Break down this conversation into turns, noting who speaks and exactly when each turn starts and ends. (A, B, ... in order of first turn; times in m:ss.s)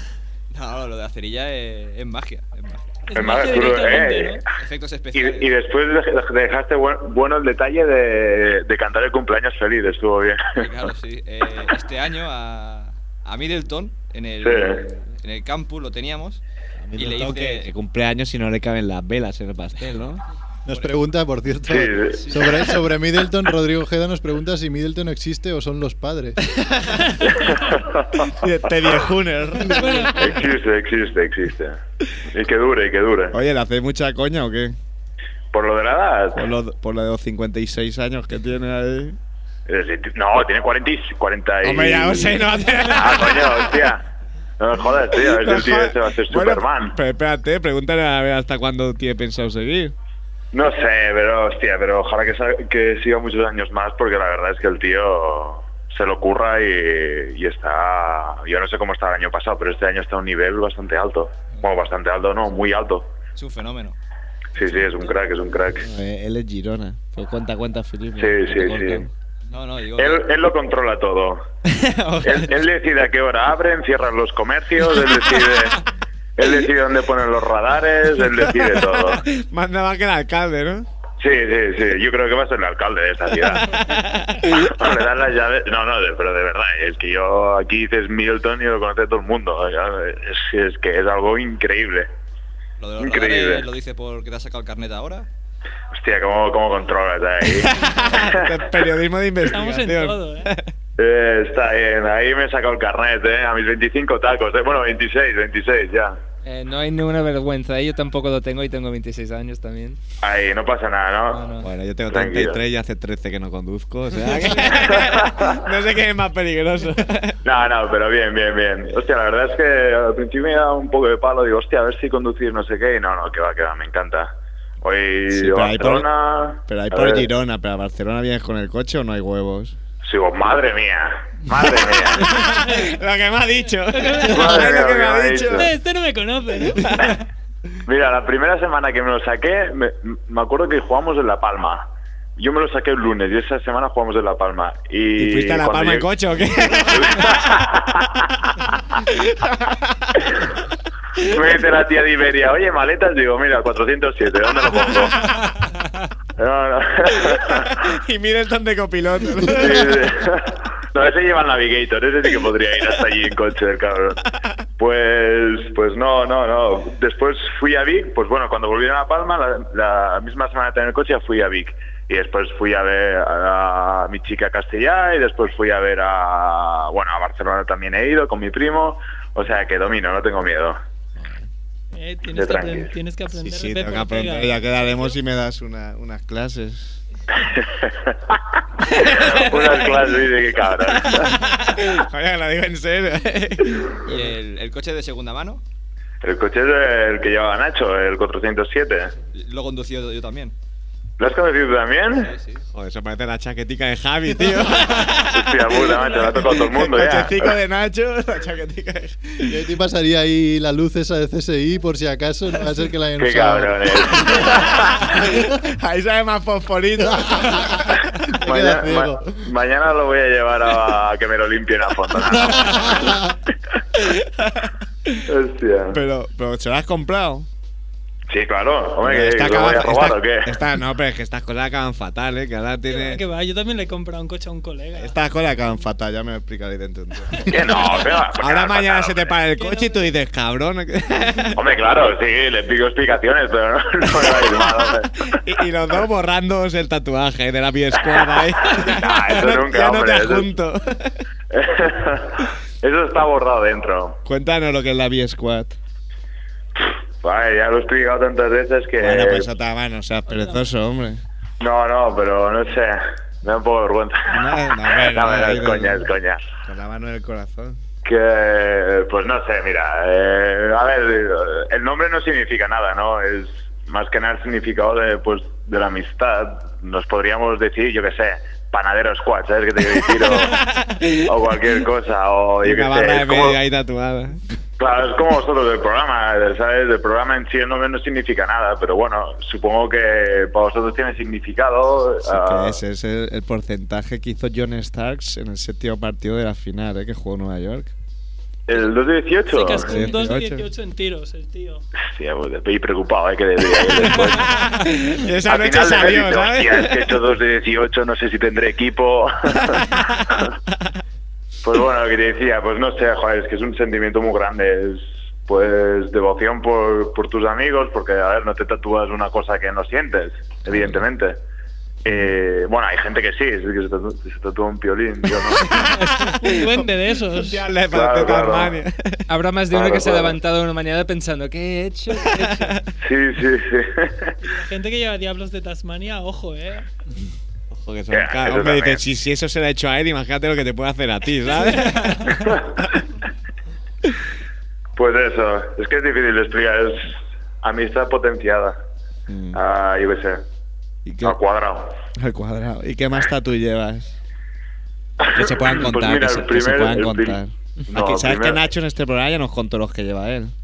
0:00.5-0:03.6 A
0:03.1-0:04.4 B
0:03.1-0:04.4 C
0:04.6-0:05.5 A
0:05.1-0:10.9 C
0:10.6-0:16.4 A
0:14.4-0:14.8 C
0:16.8-0:20.2 D
0:17.0-0:17.7 A
0:20.6-0:26.4 E
0:21.7-0:22.3 C
0:27.2-0:28.3 C
0:28.2-0:30.4 D
0:29.7-0:30.3 B
0:30.1-0:33.4 C
0:33.3-0:34.8 D
0:35.5-0:36.5 C
0:36.3-0:39.2 D
0:39.7-0:44.0 C
0:41.6-0:43.8 D
0:44.6-0:47.0 C
0:45.1-0:49.9 D
0:50.5-1:03.1 C
1:01.5-1:01.8 A
1:03.3-1:04.0 A
1:04.6-1:05.9 C
1:05.8-1:09.1 D
1:08.2-1:09.1 C
1:09.5-1:10.3 A
1:10.0-1:11.4 C
1:11.7-1:12.5 A
1:12.2-1:15.8 C
1:16.4-1:19.2 C
1:18.2-1:20.9 D
1:21.2-1:23.8 C
1:23.5-1:24.9 D
1:24.5-1:32.1 C
1:32.8-1:35.3 A
1:33.0-1:33.7 C
1:35.9-1:38.6 C
1:37.4-1:40.7 D
1:39.4-1:40.5 B
1:41.0-1:46.2 C
1:46.4-1:50.0 F
1:50.2-1:51.4 C
1:51.3-1:51.7 F
1:51.6-1:57.4 D
1:52.1-1:52.6 C
1:54.8-1:55.6 C
1:57.4-2:07.3 C
2:05.3-2:06.1 D
2:06.6-2:09.8 D
2:10.0-2:12.4 C
2:11.6-2:15.7 D
2:12.5-2:12.8 B
2:13.9-2:17.2 B
2:14.3-2:15.7 C
2:16.7-2:17.1 D
2:17.8-2:26.1 C
2:25.2-2:27.7 D
2:26.6-2:28.2 C
2:29.0-2:30.4 D
2:31.3-2:35.2 C
2:34.9-2:35.3 D
2:36.4-2:37.8 C
2:37.1-2:40.1 D
2:39.4-2:44.2 C
2:44.8-3:00.8 C
3:01.2-3:01.4 D
3:01.9-3:05.1 B
3:02.3-3:02.9 C
3:03.3-3:07.0 D
3:07.3-3:11.4 C
3:08.9-3:10.0 D
3:10.9-3:14.4 D
3:14.1-3:15.6 A
3:16.2-3:19.1 C
3:19.3-3:20.5 A
3:21.2-3:22.3 C
3:22.2-3:22.6 A
3:22.7-3:29.6 D
3:25.1-3:27.5 C
3:29.5-3:34.6 E
3:33.2-3:35.1 C
3:34.2-3:38.2 D
3:37.2-3:39.4 E
3:38.4-3:43.2 C
3:42.4-3:43.3 E
3:44.0-3:45.2 D
3:45.3-3:46.0 C
3:45.9-3:47.5 D
3:48.3-3:50.6 C
3:49.0-3:53.2 D
3:52.9-3:55.2 B
3:55.0-4:01.7 D
3:57.4-3:59.4 C
3:59.6-4:00.1 B
4:01.5-4:05.1 C
4:04.3-4:11.2 D
4:08.1-4:10.5 C
4:11.5-4:14.2 C
4:14.2-4:15.8 D
4:16.8-4:19.5 C
4:19.0-4:21.2 D
4:20.3-4:20.7 B
4:21.6-4:26.4 C
4:24.3-4:26.1 D
4:26.6-4:27.8 D
4:28.0-4:40.6 C
4:40.2-4:41.3 D
4:41.2-4:43.6 C
4:42.6-4:44.4 D
4:44.8-4:52.8 C
4:52.2-4:57.9 D
4:58.7-5:00.1 C
4:59.5-5:01.8 B
4:59.7-5:00.7 D
5:02.0-5:04.5 C
5:03.7-5:07.3 D
5:05.4-5:10.5 C
5:09.6-5:10.9 D
5:11.6-5:21.4 C
5:20.7-5:21.0 D
5:22.0-5:25.8 C
5:25.4-5:29.2 D
5:26.0-5:27.6 B
5:27.9-5:28.8 C
5:29.3-5:32.8 F
5:29.7-5:30.4 C
5:32.3-5:32.8 D
5:33.0-5:34.3 C
5:34.4-5:36.9 B
5:37.7-5:43.0 D
5:38.1-5:39.0 C
5:41.8-5:42.5 B
5:45.0-5:48.8 C
5:49.3-5:49.6 D
5:49.5-5:50.4 C
5:51.0-5:51.4 D
5:51.2-5:51.9 C
5:52.2-5:54.2 D
5:55.2-5:58.6 C
5:55.3-6:00.5 D